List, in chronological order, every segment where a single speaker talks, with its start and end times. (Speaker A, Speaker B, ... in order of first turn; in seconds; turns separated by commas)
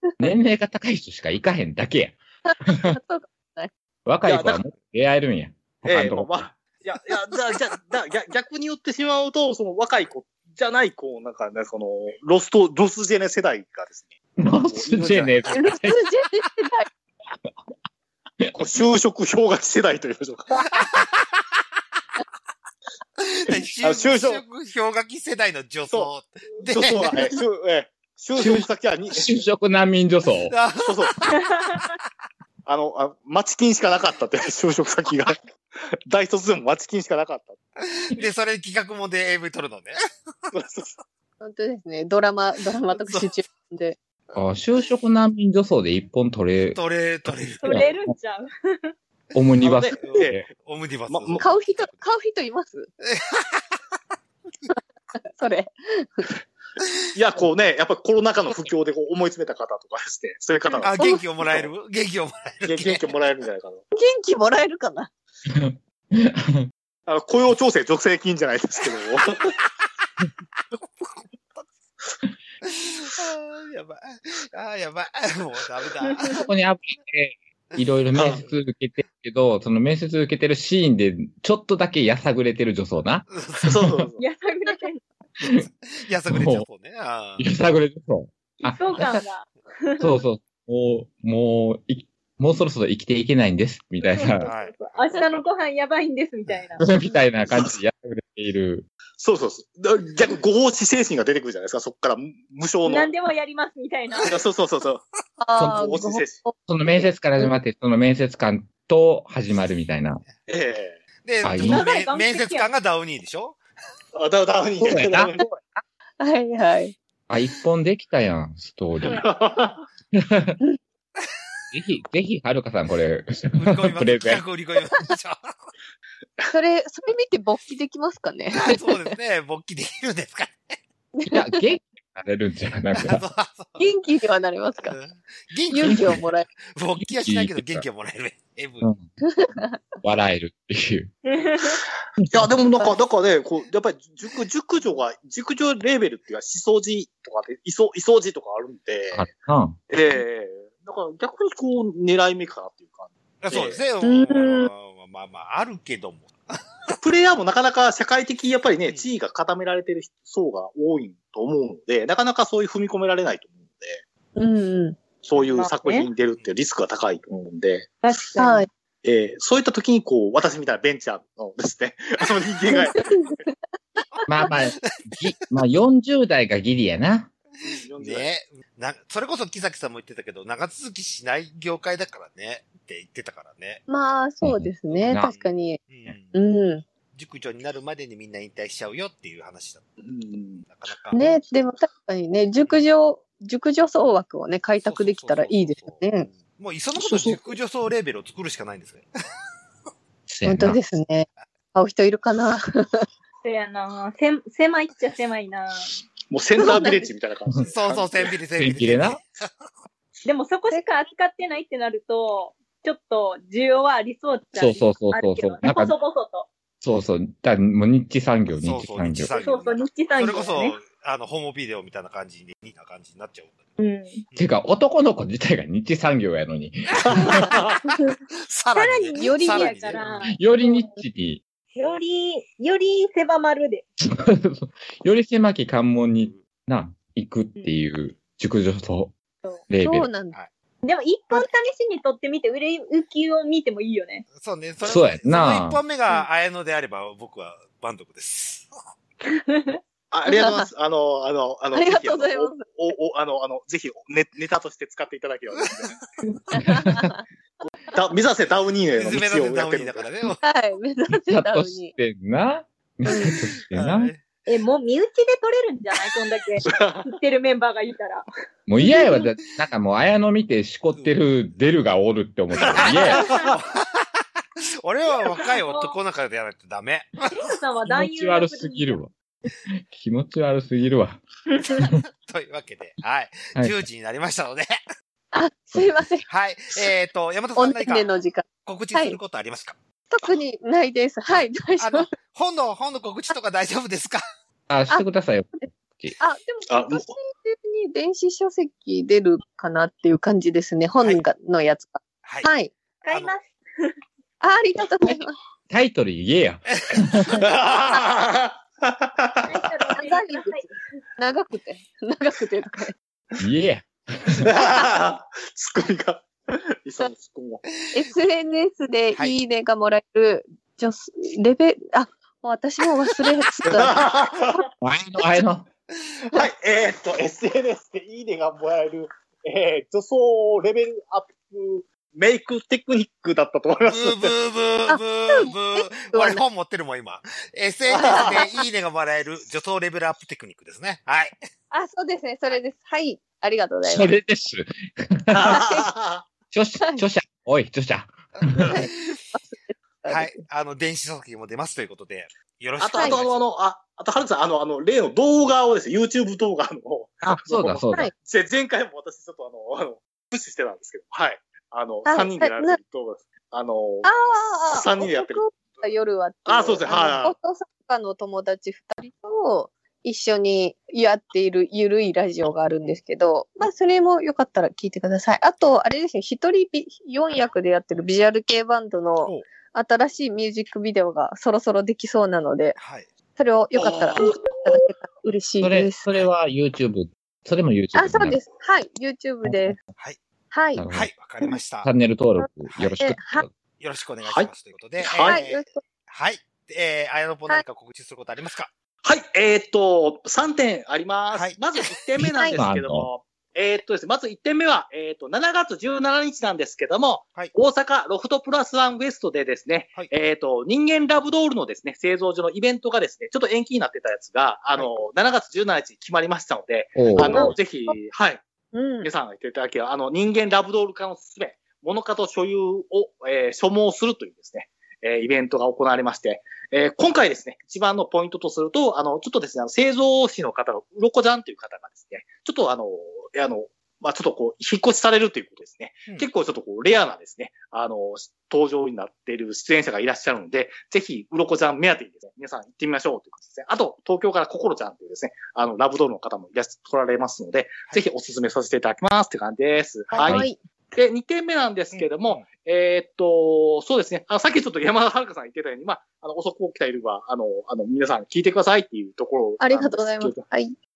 Speaker A: 0.2-3.0, Speaker B: 2.5-3.7, Speaker A: 4.1-6.5, Speaker C: 4.3-4.6, Speaker C: 5.8-15.6, Speaker A: 14.4-16.0, Speaker B: 15.5-16.9, Speaker C: 18.5-20.6, Speaker D: 20.8-21.0, Speaker D: 23.2-27.3, Speaker C: 23.8-24.4, Speaker C: 25.9-29.3, Speaker A: 28.4-30.6, Speaker D: 30.5-31.9, Speaker C: 30.8-31.1, Speaker C: 32.7-35.5, Speaker C: 36.1-37.6, Speaker D: 37.9-40.0, Speaker C: 40.5-41.0, Speaker B: 41.4-44.4, Speaker D: 43.0-43.4, Speaker A: 44.4-46.8, Speaker D: 46.8-47.9, Speaker E: 47.6-48.9, Speaker A: 47.6-48.1, Speaker A: 49.4-50.5, Speaker C: 49.6-50.4, Speaker D: 49.9-52.1, Speaker C: 51.1-51.4, Speaker B: 51.4-52.9, Speaker D: 53.0-53.8, Speaker B: 55.4-56.3, Speaker C: 57.1-61.7, Speaker D: 60.8-63.1, Speaker C: 62.6-63.8, Speaker B: 63.9-65.1, Speaker A: 65.5-66.7, Speaker C: 67.1-69.6, Speaker D: 70.7-71.8, Speaker D: 72.6-76.4, Speaker E: 76.1-76.4, Speaker A: 76.3-84.0, Speaker D: 77.7-78.5, Speaker C: 78.2-78.4, Speaker D: 83.3-83.8, Speaker C: 83.7-84.2, Speaker E: 84.2-85.0, Speaker D: 86.0-87.5, Speaker A: 86.3-86.7, Speaker A: 87.4-89.2, Speaker E: 88.7-90.2, Speaker A: 90.0-94.5, Speaker E: 94.1-96.8, Speaker D: 94.5-94.7, Speaker A: 96.8-98.9, Speaker C: 97.5-97.8, Speaker C: 99.2-103.1, Speaker E: 102.8-104.3, Speaker C: 104.3-105.0, Speaker B: 105.4-107.5, Speaker C: 105.6-106.4, Speaker A: 106.7-110.2, Speaker C: 110.5-111.0, Speaker D: 111.2-113.6, Speaker A: 111.4-111.8, Speaker E: 111.6-112.7, Speaker C: 114.2-115.4, Speaker B: 114.8-115.5, Speaker A: 114.9-115.8, Speaker B: 116.2-117.0, Speaker A: 117.3-119.2, Speaker C: 119.1-119.8, Speaker A: 120.1-120.6, Speaker A: 121.7-124.4, Speaker D: 123.6-125.6, Speaker B: 126.5-129.1, Speaker D: 128.5-130.8, Speaker B: 131.2-131.7, Speaker A: 131.3-133.2, Speaker D: 133.0-133.9, Speaker B: 133.8-135.0, Speaker D: 134.8-138.9, Speaker B: 135.7-136.5, Speaker A: 135.8-136.2, Speaker A: 137.0-137.9, Speaker A: 138.8-139.1, Speaker B: 139.3-139.8, Speaker A: 140.0-141.1, Speaker E: 141.3-141.8, Speaker C: 142.3-149.3, Speaker A: 149.1-149.8, Speaker C: 149.9-153.8, Speaker D: 153.4-156.6, Speaker B: 154.0-154.7, Speaker C: 157.0-164.0, Speaker B: 164.4-165.0, Speaker C: 165.2-167.9, Speaker E: 165.4-166.1, Speaker E: 168.0-168.7, Speaker B: 168.4-168.7, Speaker C: 169.0-173.3, Speaker B: 172.7-173.6, Speaker A: 174.3-177.3, Speaker D: 174.8-175.2, Speaker C: 177.6-178.3, Speaker D: 178.0-183.8, Speaker B: 183.9-185.8, Speaker A: 184.4-185.3, Speaker D: 184.9-186.4, Speaker B: 186.3-186.8, Speaker D: 187.1-189.9, Speaker C: 190.0-190.6, Speaker D: 190.6-191.4, Speaker B: 191.1-196.3, Speaker D: 192.6-192.9, Speaker D: 194.8-199.1, Speaker A: 200.3-200.8, Speaker B: 200.4-203.0, Speaker E: 203.4-205.9, Speaker C: 206.3-208.3, Speaker B: 206.6-207.1, Speaker D: 207.7-209.6, Speaker A: 208.6-209.2, Speaker E: 210.2-216.5, Speaker A: 214.6-215.9, Speaker A: 216.8-219.4, Speaker D: 218.6-223.6, Speaker E: 219.4-220.8, Speaker E: 223.8-224.2, Speaker D: 224.3-224.6, Speaker A: 224.4-227.5, Speaker D: 227.0-230.3, Speaker C: 227.1-227.8, Speaker E: 227.9-228.1, Speaker E: 228.7-230.9, Speaker B: 229.2-229.9, Speaker A: 230.3-231.4, Speaker E: 231.7-233.8, Speaker A: 234.0-239.1, Speaker A: 239.7-240.1, Speaker B: 239.8-240.4, Speaker E: 240.8-244.3, Speaker D: 244.3-248.7, Speaker A: 244.8-245.8, Speaker E: 249.3-249.8, Speaker C: 250.1-256.0, Speaker B: 250.3-250.7, Speaker B: 251.7-252.7, Speaker D: 255.6-256.0, Speaker B: 256.5-257.2, Speaker A: 256.6-257.1, Speaker C: 257.6-260.1, Speaker D: 258.9-260.4, Speaker B: 260.4-261.9, Speaker A: 261.1-264.1, Speaker B: 263.1-263.4, Speaker D: 263.1-264.2, Speaker E: 264.5-268.2, Speaker C: 266.7-267.1, Speaker A: 268.7-273.3, Speaker D: 272.6-274.2, Speaker E: 272.8-273.6, Speaker D: 274.8-277.3, Speaker E: 275.1-276.0, Speaker E: 277.3-279.0, Speaker A: 277.9-279.1, Speaker A: 279.9-281.9, Speaker E: 281.5-281.8, Speaker D: 282.2-284.8, Speaker B: 285.3-286.2, Speaker A: 285.7-286.0, Speaker D: 286.3-288.1, Speaker B: 287.6-289.2, Speaker D: 288.6-289.8, Speaker B: 290.1-292.1, Speaker D: 291.8-294.2, Speaker A: 294.7-296.2, Speaker B: 296.2-302.7, Speaker C: 296.7-297.1, Speaker D: 302.2-302.5, Speaker D: 303.0-303.4, Speaker E: 303.1-304.0, Speaker B: 304.4-305.4, Speaker A: 305.7-307.4, Speaker D: 306.8-307.3, Speaker C: 307.3-309.7, Speaker E: 309.5-310.7, Speaker B: 310.0-310.6, Speaker B: 311.2-312.9, Speaker A: 313.4-314.5, Speaker C: 314.4-317.6, Speaker B: 317.9-324.0, Speaker C: 323.7-324.7, Speaker A: 324.8-325.7, Speaker C: 326.3-334.4, Speaker D: 333.8-341.4, Speaker B: 334.9-336.4, Speaker C: 338.0-338.4, Speaker B: 338.1-338.6, Speaker B: 341.7-344.1, Speaker A: 343.9-345.8, Speaker C: 345.3-346.3, Speaker B: 345.4-345.8, Speaker A: 346.5-348.8, Speaker D: 348.6-349.2, Speaker B: 348.7-350.4, Speaker D: 350.1-353.4, Speaker C: 352.8-364.1, Speaker B: 352.9-353.2, Speaker A: 357.2-358.1, Speaker B: 362.1-362.8, Speaker B: 364.1-382.8, Speaker C: 364.6-365.8, Speaker C: 366.5-367.4, Speaker D: 382.8-383.1, Speaker B: 383.4-386.1, Speaker C: 383.8-384.8, Speaker A: 385.6-388.4, Speaker B: 387.9-389.8, Speaker A: 389.4-389.8, Speaker B: 390.5-390.9, Speaker A: 390.8-391.1, Speaker D: 390.9-391.9, Speaker A: 391.8-393.5, Speaker B: 392.4-393.4, Speaker D: 393.8-398.7, Speaker C: 394.2-395.5, Speaker B: 395.3-395.8, Speaker C: 399.0-418.4, Speaker D: 401.3-401.9, Speaker B: 402.2-402.6, Speaker A: 402.2-403.1, Speaker A: 417.0-417.5, Speaker B: 417.2-417.9, Speaker B: 418.7-419.1, Speaker C: 419.0-460.5, Speaker B: 450.1-450.6, Speaker D: 451.9-452.5, Speaker B: 459.6-460.8